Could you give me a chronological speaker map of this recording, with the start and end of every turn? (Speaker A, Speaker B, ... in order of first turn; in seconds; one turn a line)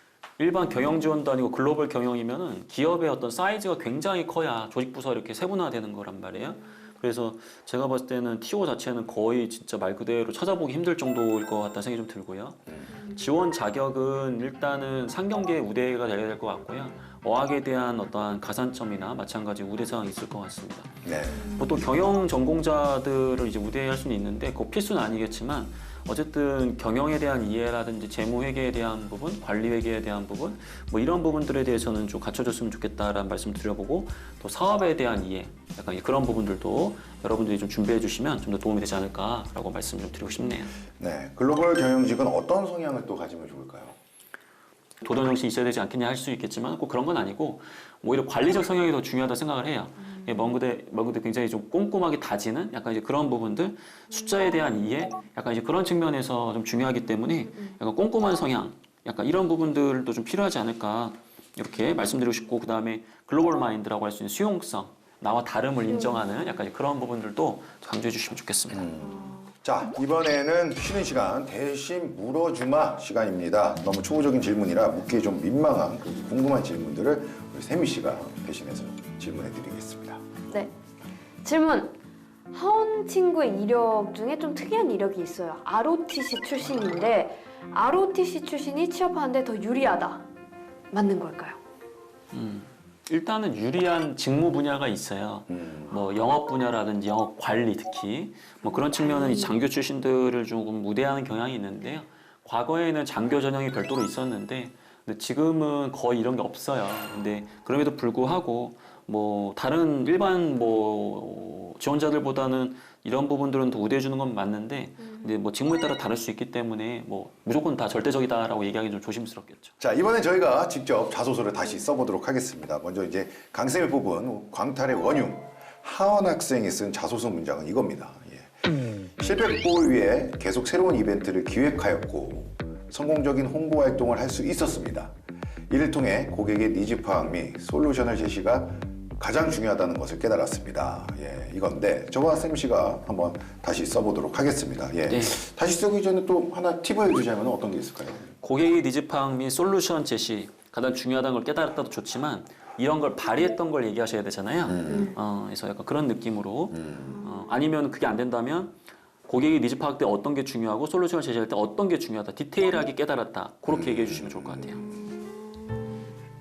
Speaker A: 0.4-20.9
Speaker B: 21.0-21.6
Speaker A: 21.6-40.8
Speaker B: 41.0-44.0
Speaker A: 45.0-68.9
Speaker C: 65.9-66.5
Speaker B: 68.7-80.2
Speaker C: 69.1-69.4
Speaker C: 81.4-82.0
Speaker C: 82.5-90.2
Speaker C: 90.9-91.6
Speaker A: 92.3-119.7
Speaker B: 95.5-96.0
Speaker C: 98.6-99.5
Speaker B: 119.8-128.5
Speaker B: 129.1-135.1
Speaker B: 135.7-148.3
Speaker A: 145.1-145.4
Speaker A: 148.4-158.7
Speaker B: 154.7-155.1
Speaker B: 156.7-157.2
Speaker A: 159.2-164.8
Speaker B: 163.7-165.1